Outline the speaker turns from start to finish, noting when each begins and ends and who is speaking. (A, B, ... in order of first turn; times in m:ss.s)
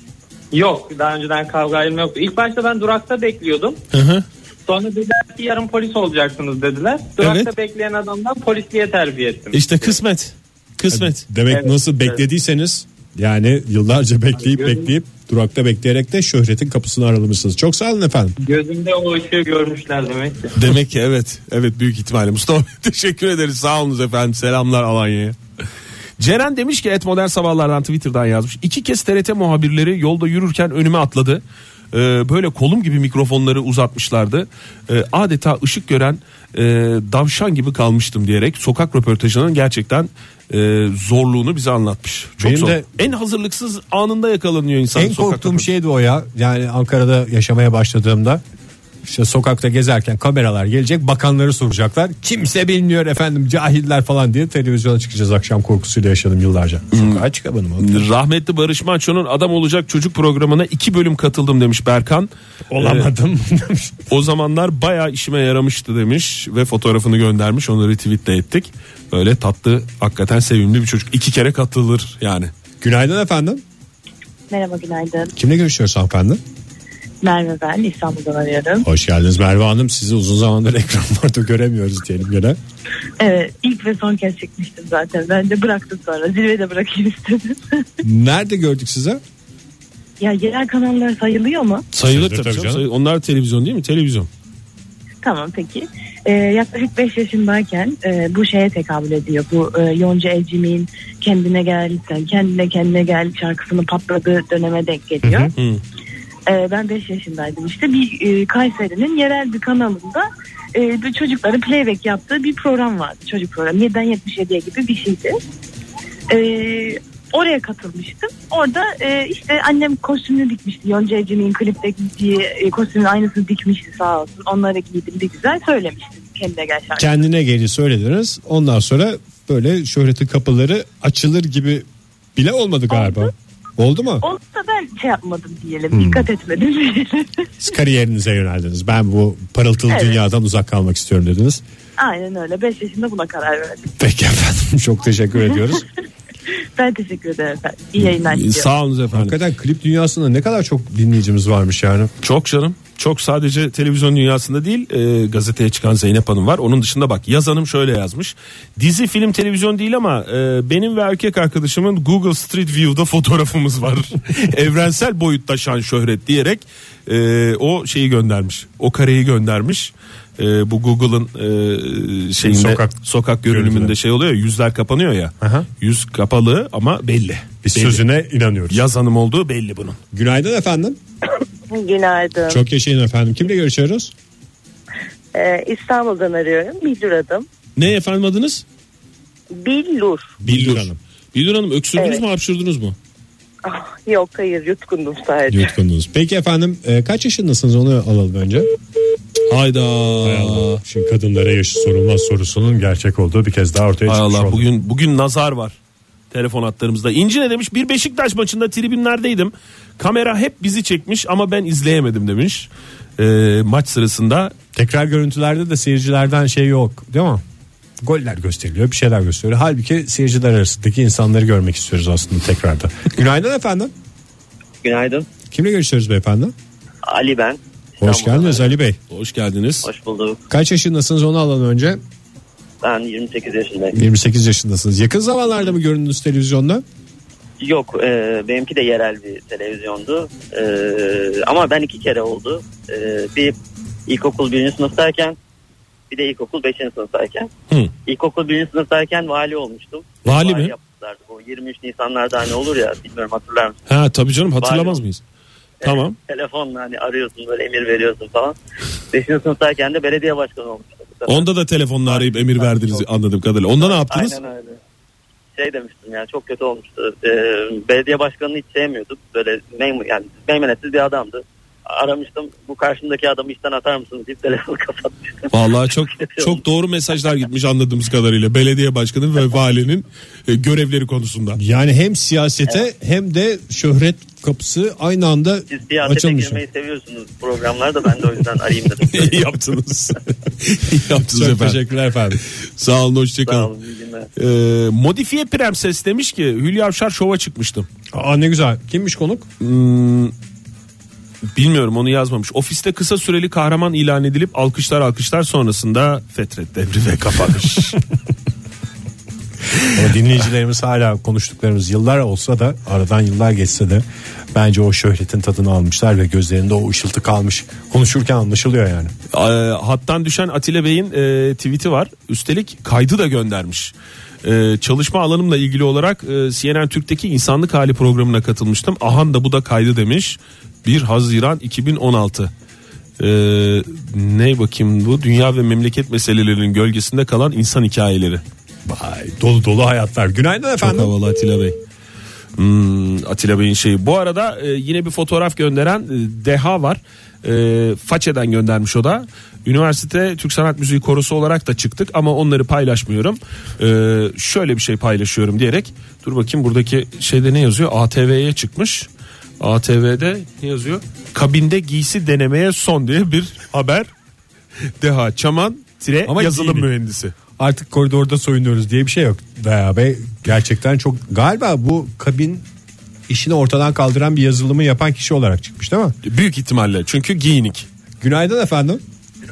0:00.5-0:03.8 A
0:03.9-0:04.2 B
0:04.7-0:10.0 A
0:07.2-0:07.5 B
0:09.5-0:11.2 B
0:10.9-0:18.4 C
0:11.5-0:12.2 A
0:14.4-0:14.9 A
0:18.4-0:20.5 A
0:20.5-0:25.4 B
0:26.2-0:45.6 B
0:42.4-0:42.9 C
0:44.9-0:48.4 C
0:49.0-0:58.0 C
0:56.9-0:57.2 B
0:57.8-1:03.1 B
1:02.7-1:04.1 C
1:04.1-1:12.5 B
1:12.8-1:13.6 C
1:14.5-1:15.3 D
1:15.4-1:16.4 C
1:17.2-1:18.8 D
1:18.8-1:22.6 C
1:23.2-1:27.8 D
1:28.0-1:29.2 C
1:30.2-1:31.8 D
1:31.9-1:34.3 B
1:32.0-1:32.8 C
1:35.2-1:45.5 D
1:45.2-1:45.5 C
1:45.5-1:45.8 B
1:46.5-1:55.4 D
1:56.3-2:07.1 D
2:07.0-2:14.2 C
2:12.9-2:13.3 D
2:14.2-2:17.5 D
2:15.9-2:16.3 C
2:17.6-2:21.6 C
2:19.9-2:20.2 D
2:22.0-2:23.9 D
2:24.0-2:25.8 C
2:26.8-2:28.7 D
2:28.0-2:29.4 B
2:29.1-2:32.1 C
2:32.2-2:58.0 B
2:52.4-2:53.9 C
2:55.4-2:55.7 C
2:57.6-2:58.8 C
2:58.7-3:00.0 B
3:00.1-3:01.0 C
3:01.7-3:02.6 E
3:02.5-3:04.1 C
3:05.3-3:07.5 E
3:07.8-3:08.6 B
3:09.5-3:10.4 E
3:10.4-3:11.0 C
3:10.4-3:13.0 B
3:12.0-3:12.2 E
3:13.6-3:15.7 E
3:15.6-3:18.6 C
3:19.5-3:20.8 B
3:20.2-3:24.6 C
3:24.1-3:25.8 B
3:26.3-3:34.5 B
3:34.7-3:37.4 C
3:38.0-3:43.9 C
3:44.8-3:45.3 F
3:45.5-3:46.5 C
3:47.0-3:48.7 F
3:48.0-3:49.0 C
3:49.1-3:49.9 B
3:49.8-3:50.4 F
3:50.5-3:52.0 C
3:52.8-3:54.0 F
3:53.9-3:56.8 C
3:57.6-4:03.5 F
4:04.1-4:05.4 F
4:06.1-4:07.5 F
4:08.0-4:13.8 F
4:10.2-4:10.7 B
4:13.9-4:15.2 B
4:14.6-4:15.0 F
4:15.8-4:16.2 B
4:15.8-4:18.6 F
4:19.1-4:21.5 F
4:21.3-4:24.4 B
4:22.0-4:23.0 F
4:23.8-4:24.8 F
4:25.5-4:36.6 F
4:35.5-4:41.6 B
4:41.6-4:46.6 C
4:45.7-4:49.4 F
4:49.1-4:51.8 B
4:51.2-4:52.4 C
4:52.4-4:53.7 B
4:53.4-4:54.3 F
4:54.4-4:57.9 B
4:58.1-4:59.5 C
4:59.6-5:00.3 B
5:01.5-5:08.0 B
5:09.9-5:19.1 C
5:19.3-5:32.5 B
5:33.2-5:38.4 B
5:38.8-5:41.1 C
5:40.8-5:41.8 B
5:42.6-5:59.1 B
5:59.6-6:04.1 B
6:05.0-6:07.3 B
6:06.3-6:06.9 C
6:07.6-6:12.6 C
6:13.3-6:16.2 C
6:16.2-6:17.9 B
6:18.2-6:19.0 C